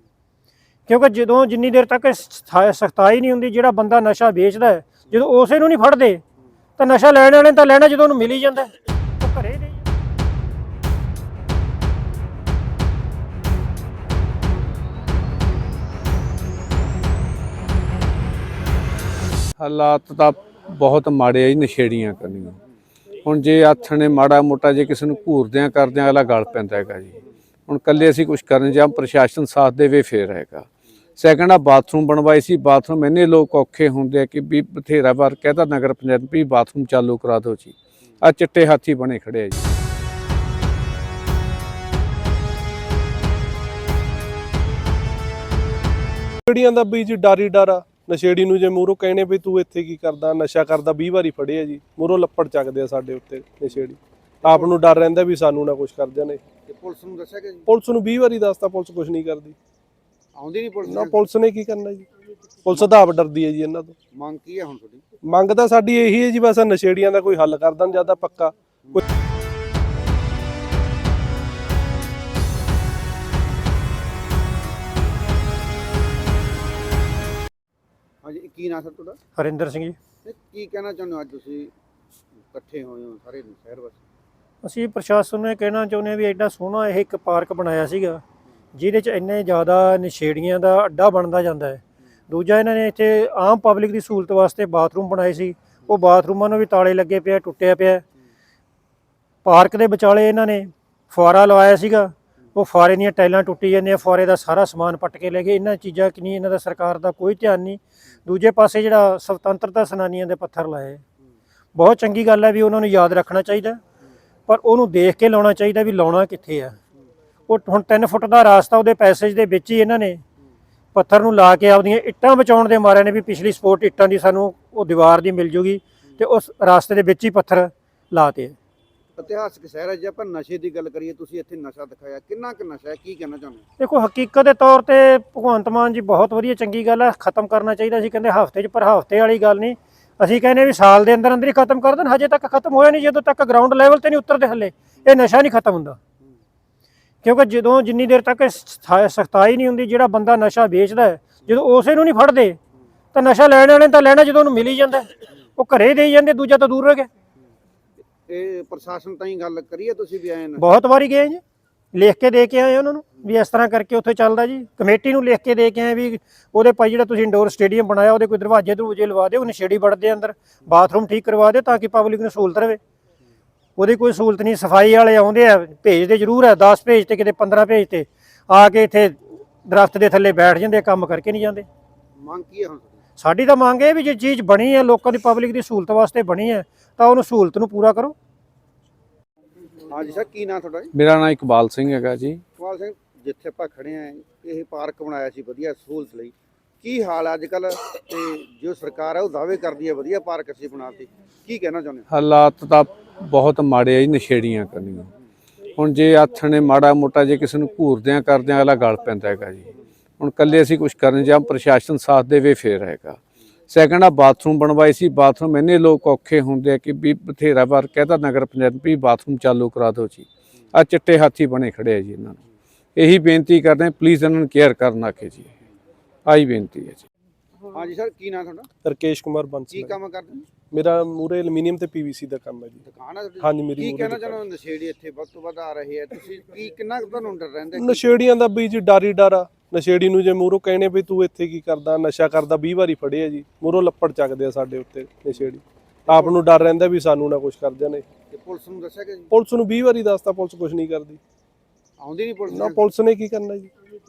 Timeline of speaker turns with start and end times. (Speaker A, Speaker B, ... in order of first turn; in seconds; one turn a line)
Speaker A: 0.9-6.2
Speaker A: 6.8-9.8
Speaker B: 19.6-22.6
Speaker B: 23.2-27.2
Speaker B: 27.7-30.7
Speaker B: 31.2-39.7
Speaker C: 46.5-56.4
Speaker D: 54.5-54.7
Speaker D: 56.7-57.7
Speaker C: 57.7-59.6
Speaker D: 60.4-61.2
Speaker C: 60.8-62.1
Speaker C: 62.6-64.0
Speaker D: 64.1-65.0
Speaker C: 65.3-68.5
Speaker D: 78.2-79.2
Speaker A: 79.4-80.0
Speaker D: 80.2-81.7
Speaker D: 82.5-84.0
Speaker A: 84.6-88.2
Speaker A: 88.8-98.0
Speaker A: 99.5-111.0
Speaker A: 111.8-113.8
Speaker A: 114.5-116.8
Speaker A: 117.5-120.2
Speaker A: 120.9-128.6
Speaker D: 129.2-133.6
Speaker A: 133.8-146.0
Speaker A: 147.2-152.6
Speaker A: 153.1-157.1
Speaker D: 158.3-160.6
Speaker A: 160.6-161.4
Speaker A: 161.9-172.8
Speaker A: 173.8-181.7
Speaker D: 182.2-182.9
Speaker A: 183.2-188.2
Speaker D: 189.8-190.9
Speaker B: 190.9-192.4
Speaker D: 192.6-202.1
Speaker B: 202.1-205.1
Speaker B: 205.8-213.2
Speaker B: 213.7-222.4
Speaker B: 223.0-225.5
Speaker B: 226.3-227.1
Speaker D: 227.7-228.7
Speaker C: 228.8-229.9
Speaker D: 229.7-230.5
Speaker C: 230.6-232.8
Speaker D: 232.8-238.2
Speaker C: 233.4-234.4
Speaker C: 237.8-248.1
Speaker D: 248.3-249.3
Speaker C: 249.3-251.2
Speaker D: 252.0-252.9
Speaker C: 252.5-253.7